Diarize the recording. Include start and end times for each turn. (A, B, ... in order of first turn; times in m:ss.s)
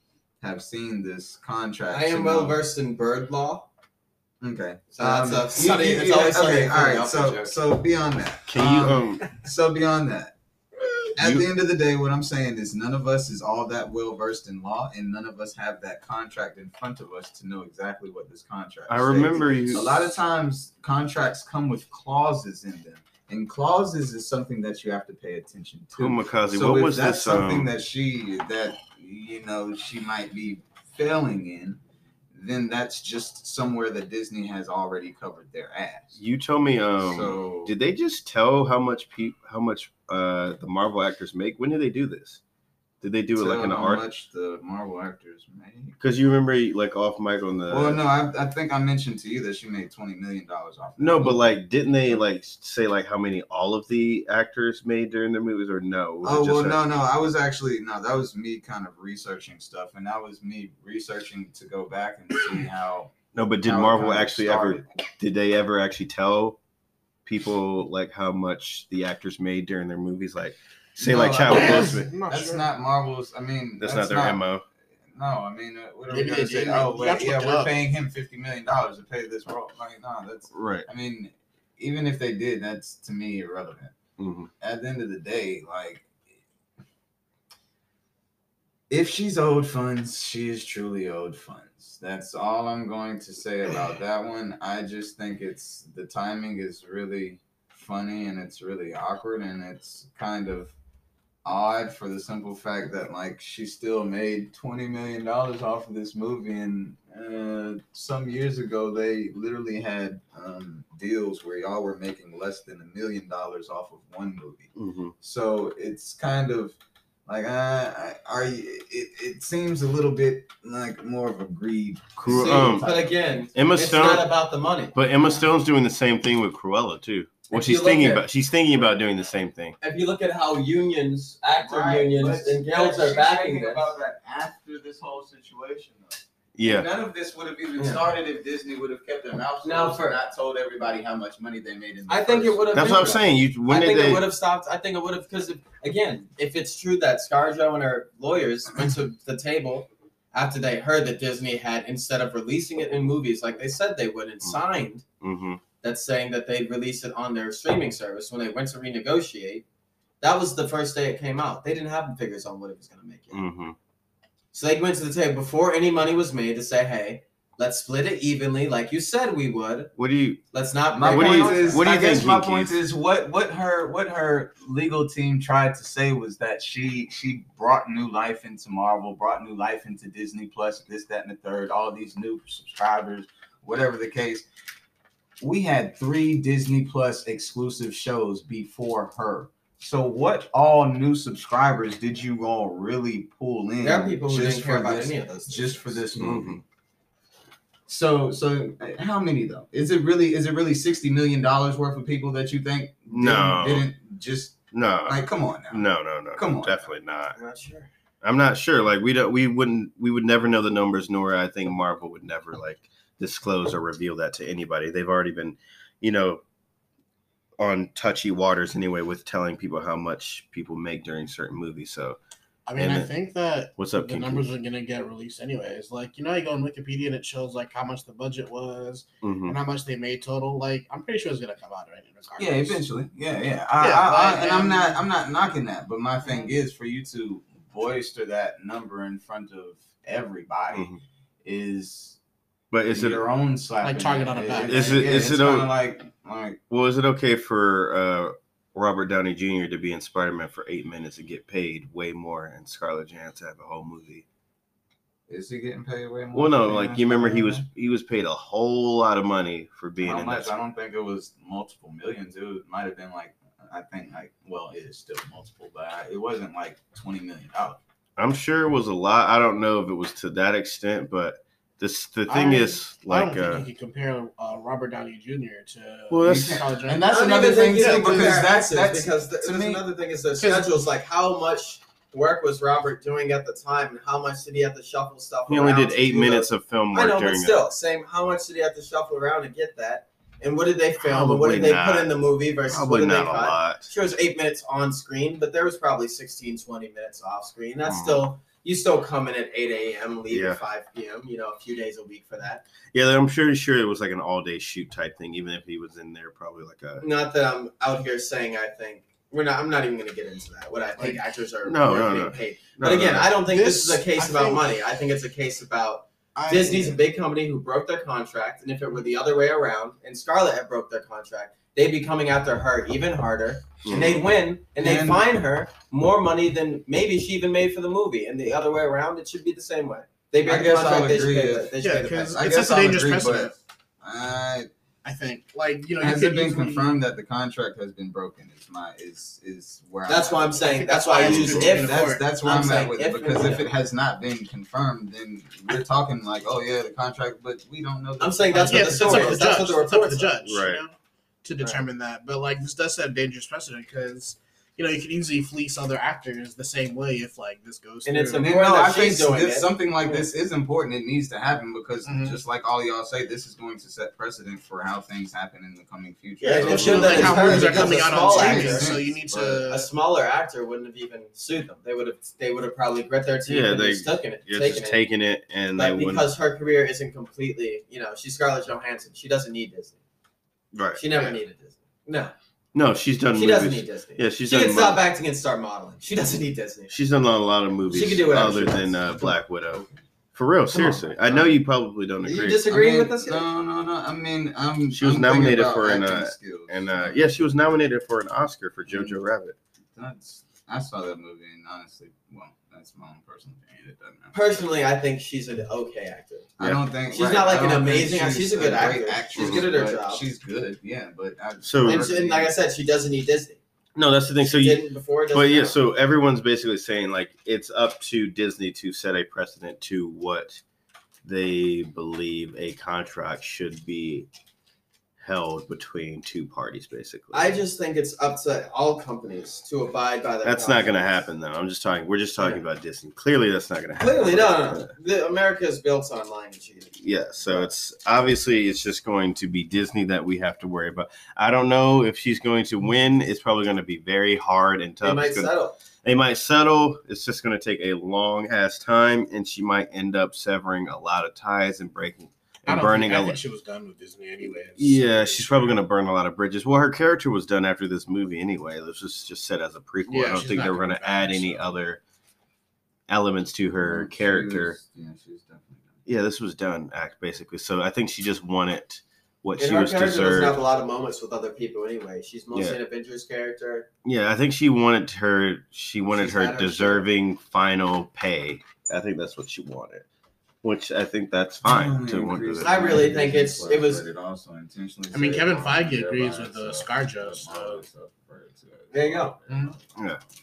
0:00.4-0:02.6 A
0:01.9-0:03.7 B
0:04.4-0:10.3 A
0:04.9-0:07.6 B
0:08.5-0:09.3 C
0:11.2-0:11.4 C
0:11.2-0:31.8 A
0:18.9-0:20.1 C
0:26.0-0:27.7 C
0:32.3-0:36.2 A
0:36.2-0:42.4 C
0:37.0-0:37.7 A
0:43.0-0:44.0 C
0:43.4-0:46.0 A
0:46.0-0:48.0 C
0:47.7-0:52.2 A
0:51.0-0:56.8 C
0:56.2-1:04.8 A
1:03.3-1:06.6 C
1:07.2-1:12.1 C
1:11.0-1:14.4 A
1:11.5-1:12.6 D
1:13.8-1:14.6 C
1:15.0-1:23.9 A
1:16.1-1:17.7 D
1:20.5-1:20.9 C
1:24.2-1:24.5 C
1:24.6-1:26.1 A
1:28.9-1:40.7 A
1:41.4-2:03.5 A
1:54.8-1:55.1 C
2:02.2-2:02.9 C
2:02.2-2:05.0 B
2:03.5-2:04.3 C
2:04.9-2:09.8 C
2:07.5-2:08.2 B
2:09.8-2:13.9 B
2:11.6-2:23.2 A
2:16.5-2:16.9 C
2:17.8-2:18.0 B
2:19.6-2:20.2 B
2:22.1-2:35.0 B
2:22.7-2:24.2 C
2:35.2-2:35.6 C
2:35.8-2:39.6 B
2:40.2-2:43.4 B
2:43.3-2:43.8 C
2:44.5-2:49.9 B
2:50.0-2:50.4 C
2:50.5-2:51.8 B
2:50.9-3:04.4 A
2:51.0-2:52.8 C
3:05.4-3:16.6 A
3:13.8-3:16.0 B
3:16.2-3:16.6 C
3:17.9-3:26.9 A
3:23.1-3:23.9 C
3:24.7-3:27.4 C
3:27.3-3:27.9 B
3:28.2-3:36.4 C
3:37.6-3:42.2 C
3:42.7-3:52.8 D
3:42.8-3:43.1 C
3:43.8-3:44.4 C
3:49.2-3:49.6 C
3:52.4-4:00.9 A
3:53.8-3:55.0 D
4:00.7-4:01.0 C
4:01.4-4:02.2 A
4:02.7-4:03.2 C
4:02.9-4:06.6 A
4:03.8-4:05.3 D
4:04.5-4:05.7 C
4:06.7-4:14.2 C
4:15.3-4:17.6 A
4:16.3-4:20.6 C
4:20.0-4:27.8 A
4:28.2-4:33.7 C
4:32.3-4:38.4 D
4:36.1-4:36.7 C
4:36.2-4:39.8 A
4:37.1-5:02.6 B
4:40.4-4:40.8 D
4:45.5-4:47.6 C
4:51.0-4:52.1 C
4:52.7-4:53.9 C
4:57.8-4:58.2 C
5:00.3-5:00.6 C
5:02.9-5:07.0 C
5:07.0-5:32.4 B
5:11.6-5:13.4 C
5:13.4-5:14.6 D
5:16.4-5:17.0 A
5:23.8-5:24.2 C
5:24.8-5:25.2 A
5:30.4-5:34.7 A
5:31.8-5:33.5 D
5:35.0-5:36.9 D
5:36.0-5:49.5 A
5:40.1-5:43.7 B
5:40.6-5:42.2 D
5:41.2-5:41.6 C
5:48.2-5:50.4 B
5:48.5-5:58.5 D
5:50.4-5:50.8 C
5:58.0-6:00.2 B
5:58.4-6:09.7 A
6:02.0-6:02.4 D
6:06.4-6:08.9 B
6:06.6-6:09.9 D
6:06.7-6:07.4 C
6:09.7-6:15.0 B
6:13.5-6:16.3 C
6:15.8-6:20.0 B
6:20.7-6:21.2 C
6:21.0-6:22.3 B
6:22.7-6:25.0 C
6:23.3-6:26.9 B
6:26.9-6:32.7 C
6:27.9-6:29.1 B
6:30.7-6:31.6 A
6:32.2-6:33.4 B
6:32.7-6:37.3 A
6:34.9-6:39.6 C
6:38.9-6:39.2 A
6:39.9-6:44.4 A
6:44.3-6:46.5 B
6:46.6-6:52.5 A
6:47.1-6:50.3 B
6:49.4-6:49.6 C
6:51.6-6:52.1 C
6:51.8-6:53.6 B
6:53.9-7:00.6 C
6:54.4-6:55.8 B
7:01.2-7:04.3 C
7:05.2-7:07.6 C
7:07.3-7:11.2 B
7:10.4-7:14.9 C
7:14.0-7:17.7 B
7:17.0-7:25.5 C
7:25.0-7:25.8 B
7:26.0-7:33.4 C
7:32.7-7:35.8 D
7:34.8-7:42.0 C
7:40.1-7:41.7 D
7:43.1-7:44.8 C
7:43.8-7:46.0 A
7:46.0-7:50.6 C
7:49.6-7:53.9 B
7:54.0-8:00.0 C
7:56.1-7:57.0 B
8:00.6-8:03.0 C
8:01.6-8:09.8 A
8:02.6-8:04.0 B
8:05.1-8:07.8 D
8:08.9-8:09.4 B
8:09.5-8:09.7 D
8:09.9-8:10.2 C